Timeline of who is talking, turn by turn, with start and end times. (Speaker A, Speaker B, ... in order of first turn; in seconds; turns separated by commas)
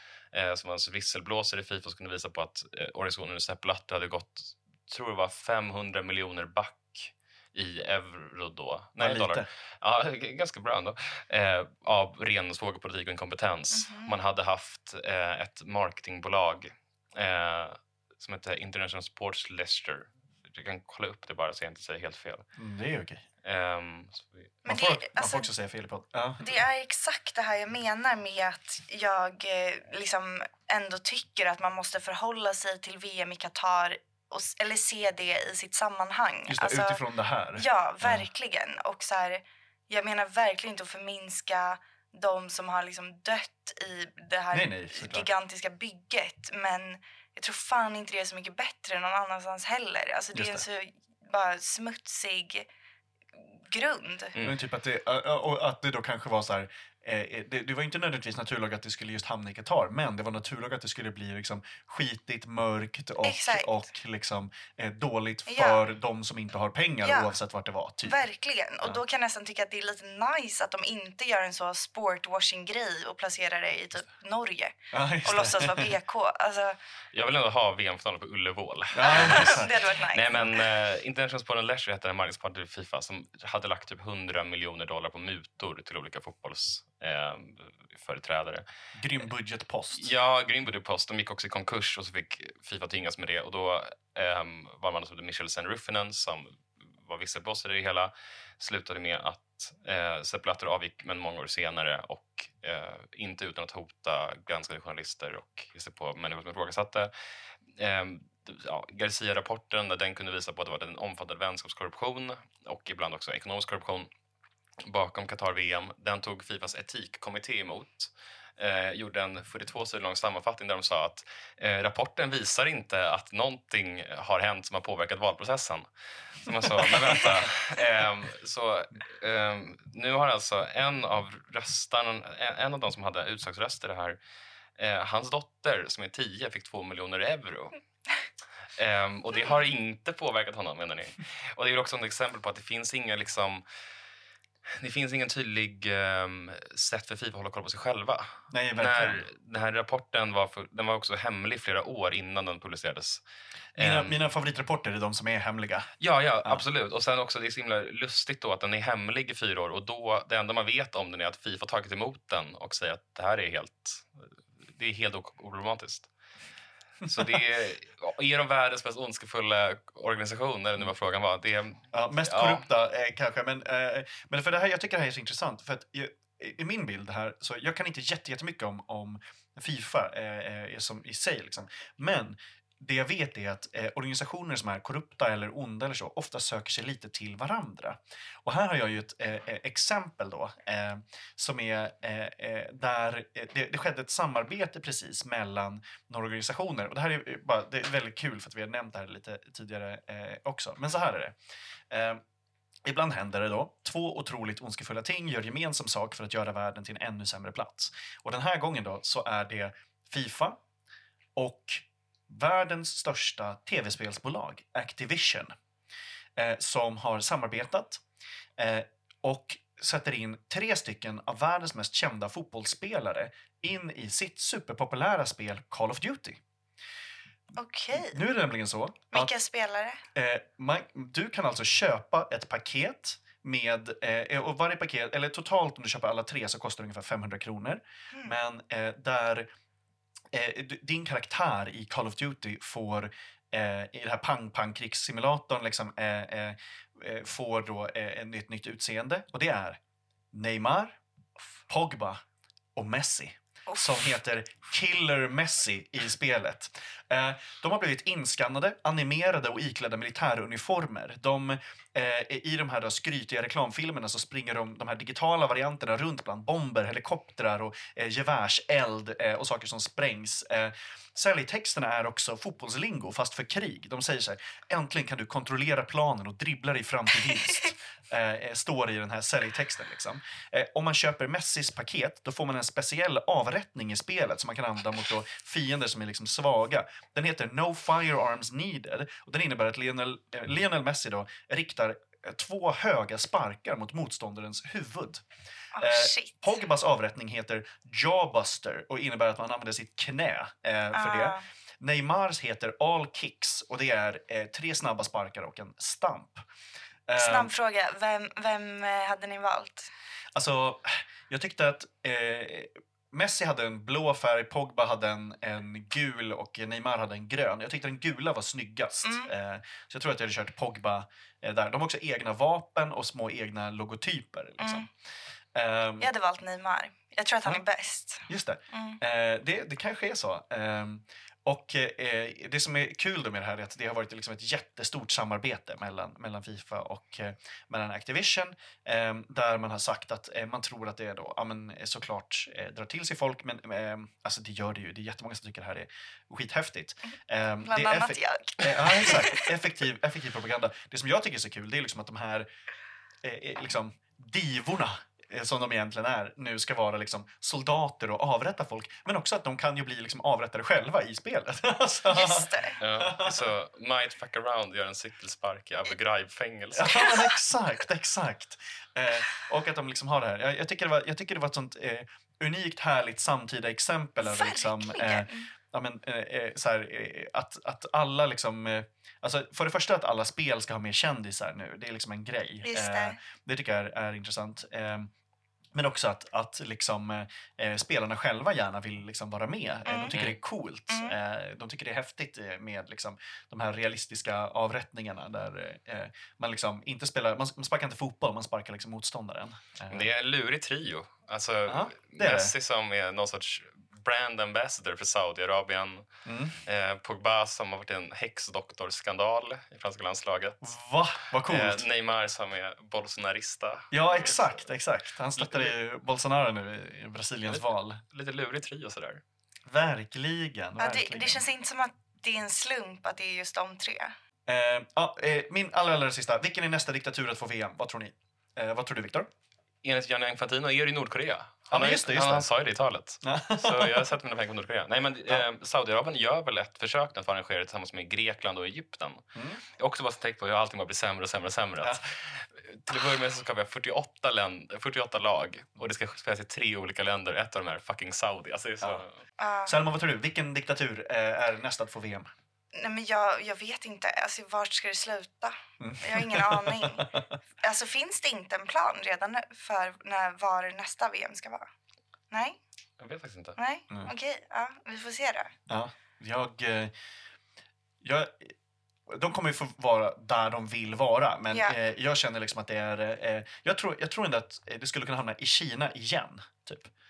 Speaker A: 0.3-22.4, Speaker B: 9.0-9.5, Speaker C: 13.7-14.1, Speaker B: 22.6-23.2, Speaker A: 23.4-24.6, Speaker C: 24.6-25.5, Speaker B: 24.7-26.5, Speaker C: 26.4-37.0, Speaker B: 36.5-38.2, Speaker C: 37.6-52.7, Speaker B: 44.5-45.3, Speaker B: 50.3-50.6, Speaker C: 53.4-54.3, Speaker A: 54.3-54.6, Speaker B: 54.4-68.2, Speaker C: 63.2-63.8, Speaker C: 65.5-65.8, Speaker C: 67.0-67.3, Speaker C: 68.0-76.8, Speaker B: 74.9-75.9, Speaker A: 77.1-88.7, Speaker B: 78.9-79.8, Speaker C: 79.1-80.3, Speaker B: 89.0-90.1, Speaker A: 89.9-107.1, Speaker A: 107.8-114.1, Speaker A: 114.9-125.9, Speaker A: 126.4-134.2, Speaker B: 126.8-127.1, Speaker A: 134.8-137.8, Speaker A: 138.8-143.6, Speaker A: 144.8-153.2, Speaker B: 148.5-149.3, Speaker A: 153.8-154.2, Speaker B: 153.8-155.9, Speaker A: 156.0-166.1, Speaker A: 167.1-172.6, Speaker B: 167.1-167.3, Speaker B: 171.9-201.4, Speaker B: 201.9-202.2, Speaker B: 202.8-210.6, Speaker B: 211.4-215.5, Speaker B: 216.4-218.0, Speaker B: 218.6-226.4, Speaker C: 227.6-228.2, Speaker B: 227.9-229.3, Speaker C: 229.1-230.0, Speaker B: 230.1-239.5, Speaker B: 240.3-249.8, Speaker B: 250.3-251.0, Speaker B: 251.7-252.2, Speaker B: 252.8-295.2, Speaker C: 253.7-254.0, Speaker C: 277.3-277.7, Speaker C: 295.8-296.5, Speaker B: 295.8-306.4, Speaker C: 300.9-301.4, Speaker B: 307.1-307.5, Speaker C: 307.2-309.9, Speaker B: 310.3-324.9, Speaker C: 319.0-319.3, Speaker C: 324.6-324.9, Speaker B: 325.6-326.1, Speaker C: 326.0-329.0, Speaker B: 328.3-352.5, Speaker C: 347.6-349.5, Speaker B: 353.2-363.4, Speaker C: 362.1-362.8, Speaker A: 362.8-367.1, Speaker B: 366.8-385.1, Speaker C: 374.2-375.5, Speaker C: 382.6-383.2, Speaker B: 385.7-400.1, Speaker C: 389.9-390.2, Speaker C: 390.9-391.2, Speaker A: 399.9-406.1, Speaker B: 401.7-402.5, Speaker B: 406.3-406.6, Speaker A: 406.6-410.6, Speaker B: 410.6-411.9, Speaker A: 411.5-414.4, Speaker B: 413.9-418.0, Speaker A: 415.4-415.7, Speaker A: 417.5-419.2, Speaker B: 419.7-421.4, Speaker C: 420.8-424.1, Speaker B: 424.5-429.3, Speaker A: 429.8-439.2, Speaker B: 431.7-432.5, Speaker B: 433.2-434.1, Speaker B: 439.4-439.6, Speaker A: 439.8-449.2, Speaker C: 449.4-449.8, Speaker B: 449.7-452.3, Speaker C: 452.7-457.1, Speaker B: 455.8-457.3, Speaker C: 457.6-461.7, Speaker C: 462.3-462.6, Speaker A: 463.0-463.6, Speaker C: 463.6-465.5, Speaker B: 465.7-466.9, Speaker B: 468.0-468.5, Speaker B: 469.1-476.9